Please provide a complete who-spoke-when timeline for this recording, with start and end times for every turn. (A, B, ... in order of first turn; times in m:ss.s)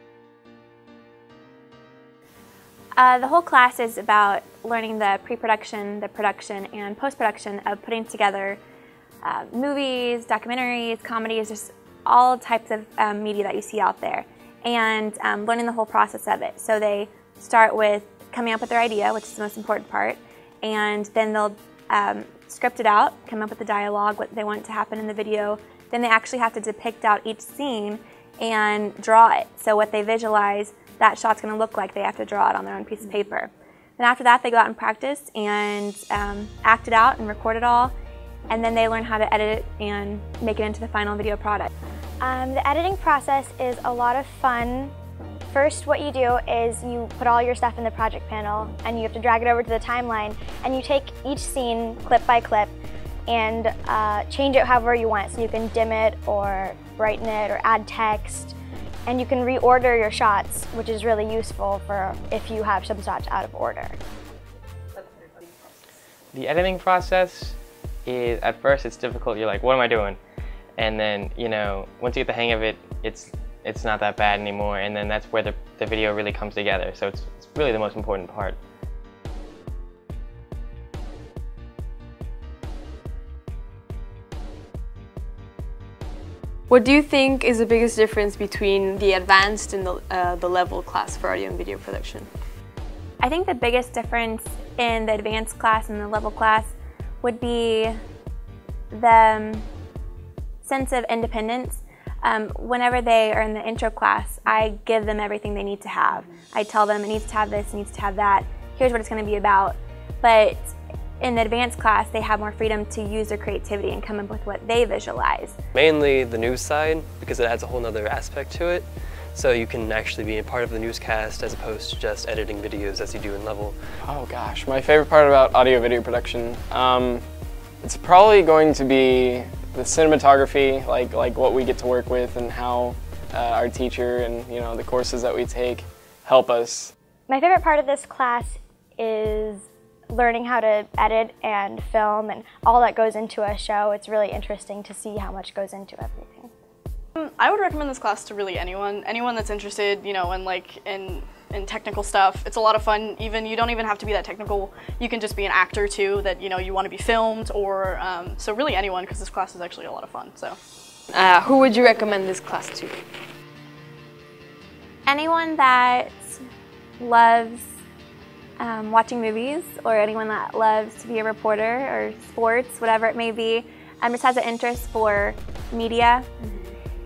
0:03.0-0:08.6 A
0:09.2-0:37.9 A
0:38.5-0:41.7 A
0:42.2-0:44.9 B
0:45.5-0:52.7 B
0:53.3-1:04.0 B
1:06.3-1:10.2 C
1:10.8-1:18.6 C
1:26.7-1:32.3 D
1:33.2-1:38.0 A
1:38.9-1:39.7 A
1:40.6-1:55.6 A
1:55.7-2:03.8 E
2:04.0-2:07.2 F
2:07.8-2:16.9 F
2:17.3-2:26.5 B
2:27.2-2:40.6 G
2:41.1-2:43.0 D
2:45.1-2:46.4 A
2:47.0-2:47.8 A
2:48.6-2:56.3 A